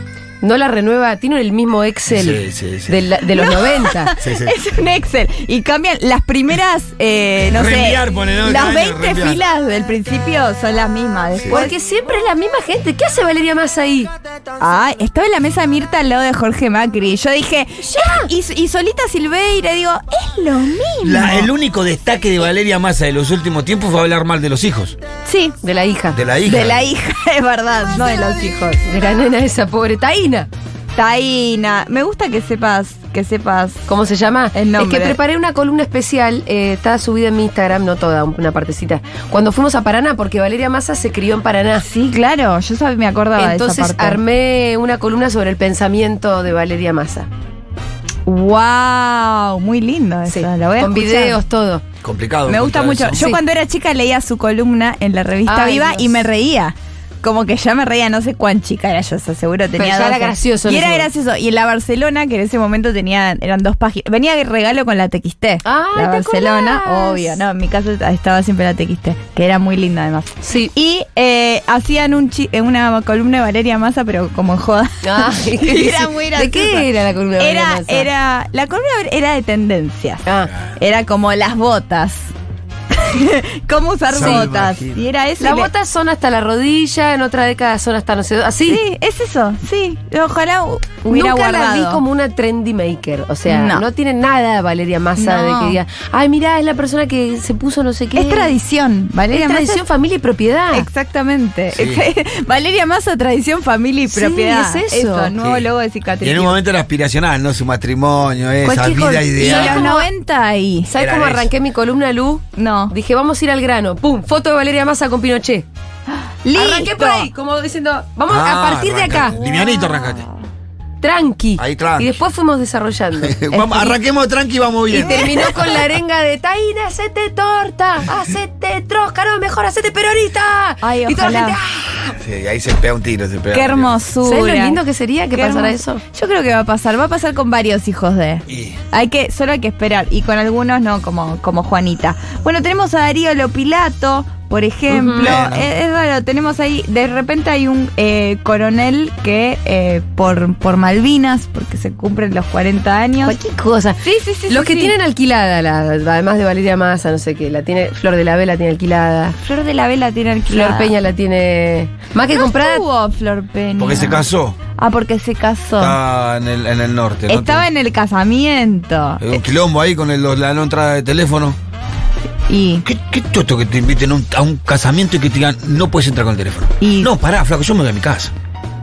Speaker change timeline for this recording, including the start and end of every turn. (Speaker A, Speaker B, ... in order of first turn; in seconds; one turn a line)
Speaker A: 0.4-4.1
Speaker B: 2.1-3.0
Speaker C: 3.3-11.7
Speaker B: 4.2-4.6
Speaker B: 7.5-9.4
Speaker B: 11.4-11.6
Speaker A: 11.5-14.1
Speaker C: 14.6-21.5
Speaker A: 17.9-18.3
Speaker B: 21.0-25.0
Speaker C: 25.2-25.5
Speaker A: 25.6-26.2
Speaker B: 26.1-26.8
Speaker C: 26.4-28.8
Speaker A: 28.8-30.5
Speaker C: 30.9-33.8
Speaker A: 33.9-41.9
Speaker C: 34.5-35.2
Speaker C: 41.8-44.2
Speaker A: 43.3-47.3
Speaker C: 48.2-51.4
Speaker A: 50.3-51.8
Speaker B: 52.0-53.3
Speaker C: 52.5-76.9
Speaker A: 55.5-56.2
Speaker A: 59.8-61.1
Speaker A: 65.6-67.4
Speaker A: 70.4-70.7
Speaker A: 75.0-78.1
Speaker C: 77.4-80.2
Speaker A: 80.2-80.5
Speaker B: 80.5-80.8
Speaker C: 80.8-82.3
Speaker C: 82.9-85.7
Speaker B: 84.1-85.0
Speaker A: 84.2-84.5
Speaker A: 85.4-88.8
Speaker C: 88.7-92.0
Speaker A: 91.1-98.5
Speaker C: 93.5-93.8
Speaker C: 95.2-95.8
Speaker C: 98.1-99.8
Speaker A: 99.3-100.9
Speaker C: 100.7-106.6
Speaker B: 101.7-102.0
Speaker A: 104.1-105.3
Speaker B: 105.4-105.7
Speaker B: 106.2-109.9
Speaker A: 108.6-110.1
Speaker C: 109.3-110.9
Speaker A: 110.8-115.7
Speaker B: 111.0-111.5
Speaker C: 112.5-112.9
Speaker C: 116.4-117.3
Speaker A: 116.5-119.3
Speaker B: 118.3-120.3
Speaker C: 119.3-120.3
Speaker A: 121.0-124.0
Speaker B: 121.6-122.2
Speaker B: 123.2-125.9
Speaker A: 124.9-132.2
Speaker C: 124.9-125.5
Speaker C: 130.8-131.6
Speaker B: 132.2-133.9
Speaker C: 133.5-134.8
Speaker A: 134.2-136.0
Speaker C: 135.3-153.4
Speaker B: 138.5-138.8
Speaker A: 144.9-145.4
Speaker B: 145.2-145.7
Speaker A: 153.2-159.4
Speaker C: 154.0-154.9
Speaker C: 159.4-160.9
Speaker A: 160.5-162.8
Speaker C: 162.3-164.2
Speaker B: 163.8-164.6
Speaker C: 164.8-166.0
Speaker B: 165.8-167.7
Speaker C: 167.3-169.4
Speaker B: 169.2-171.6
Speaker C: 172.5-172.8
Speaker B: 172.8-178.3
Speaker C: 176.8-177.1